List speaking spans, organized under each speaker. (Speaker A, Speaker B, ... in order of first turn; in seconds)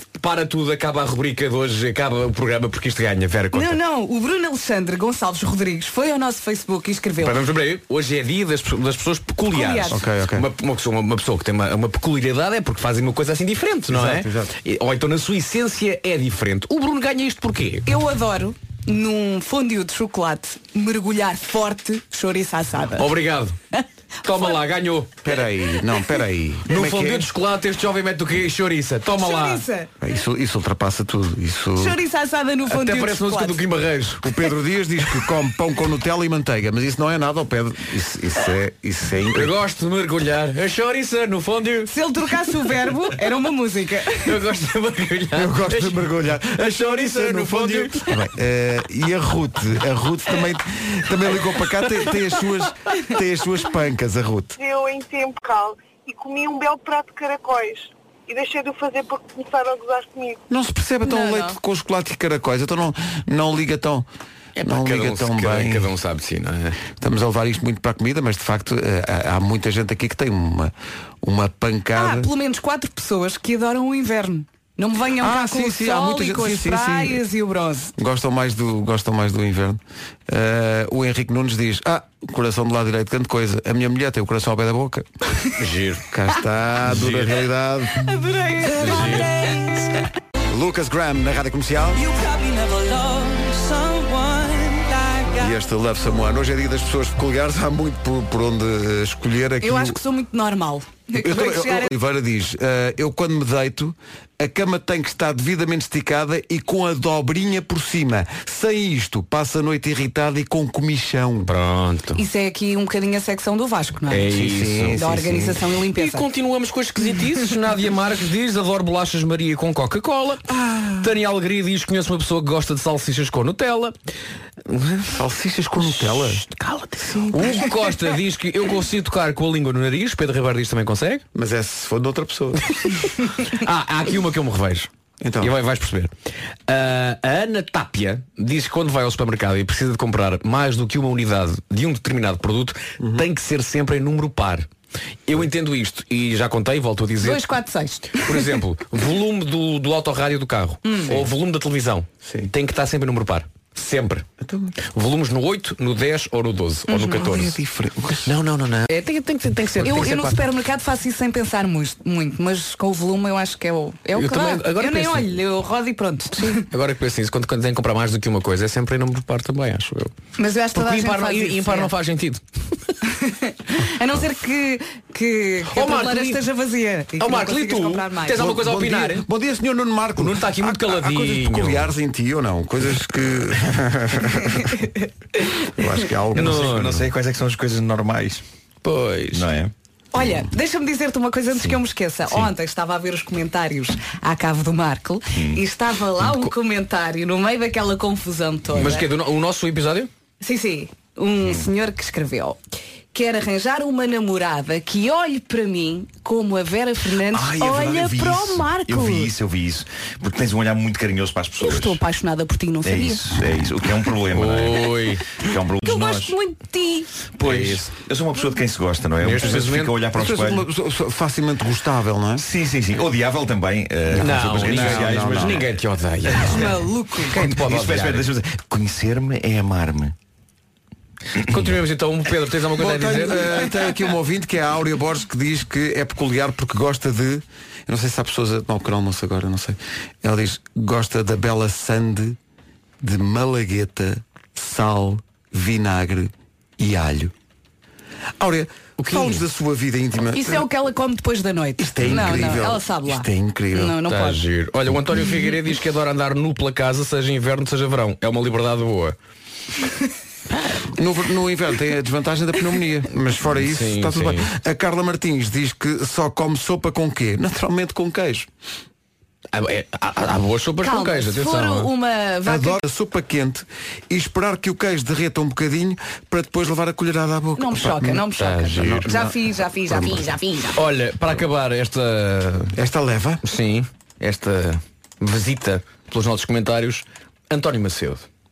Speaker A: 0.2-3.8, 7.2-17.9, 23.0-23.6, 24.2-25.2, 26.7-29.6, 32.7-34.4, 39.3-41.9, 42.5-42.8, 44.2-48.1, 64.6-66.8, 85.6-86.0, 86.8-87.4, 88.7-89.6, 111.5-112.2, 114.1-123.9, 124.7-125.1, 125.8-131.2, 133.4-134.9, 135.4-136.1, 136.7-144.7, 145.3-147.5, 148.2-154.3, 154.8-157.6, 158.3-160.4, 164.2-165.4, 166.4-170.1, 170.7-172.4, 175.7-176.4, 177.2-179.3, 180.2-181.9, 186.3-187.1, 188.8-189.5, 198.7-200.1, 214.3-215.2, 217.4-217.9, 219.2-219.9, 224.1-228.3, 231.5-233.7, 249.0-249.4, 254.1-259.2, 263.6-264.5, 269.5-271.9, 278.4-279.1, 280.8-282.8, 283.4-288.3
Speaker B: 3.5-7.4, 9.5-10.0, 17.9-23.1, 23.7-24.6, 29.2-29.9, 31.8-33.6, 41.9-44.3, 61.0-61.6, 72.0-77.9, 88.0-89.9, 92.0-95.5, 99.6-101.9, 112.2-114.3, 115.0-116.2, 147.2-148.5, 150.8-151.2, 156.9-157.3, 159.8-166.7, 170.4-171.9, 173.1-178.5, 184.7-185.5, 190.1-199.1, 200.4-202.6, 203.1-209.3, 211.6-213.3, 215.8-217.1, 226.4-227.4, 250.3-254.4, 270.8-272.8, 277.6-280.8
Speaker C: 9.9-10.5, 13.9-14.6, 25.2-27.3, 30.0-32.0, 34.2-39.6, 45.3-54.6, 60.5-64.1, 64.6-65.9, 67.0-72.3, 75.2-77.2, 78.0-85.1, 86.1-88.1, 90.5-92.0, 95.3-100.0, 101.1-111.5, 114.3-115.6, 120.5-121.1, 125.1-126.5, 127.0-127.7, 131.3-132.7, 135.2-135.5, 143.0-143.2, 152.3-152.5, 154.4-154.7, 157.1-158.3, 178.3-184.8, 185.8-186.7, 220.2-222.5, 224.4-225.7, 232.8-242.4, 243.0-247.3, 248.4-250.7, 251.8-254.0, 260.9-268.5, 272.4-280.3, 282.7-283.4
Speaker D: 54.6-60.4
Speaker E: 186.4-188.4, 189.3-189.7, 195.3-195.6, 207.3-212.0, 212.8-216.3, 217.4-220.7, 222.4-225.7, 226.3-226.8, 227.3-230.1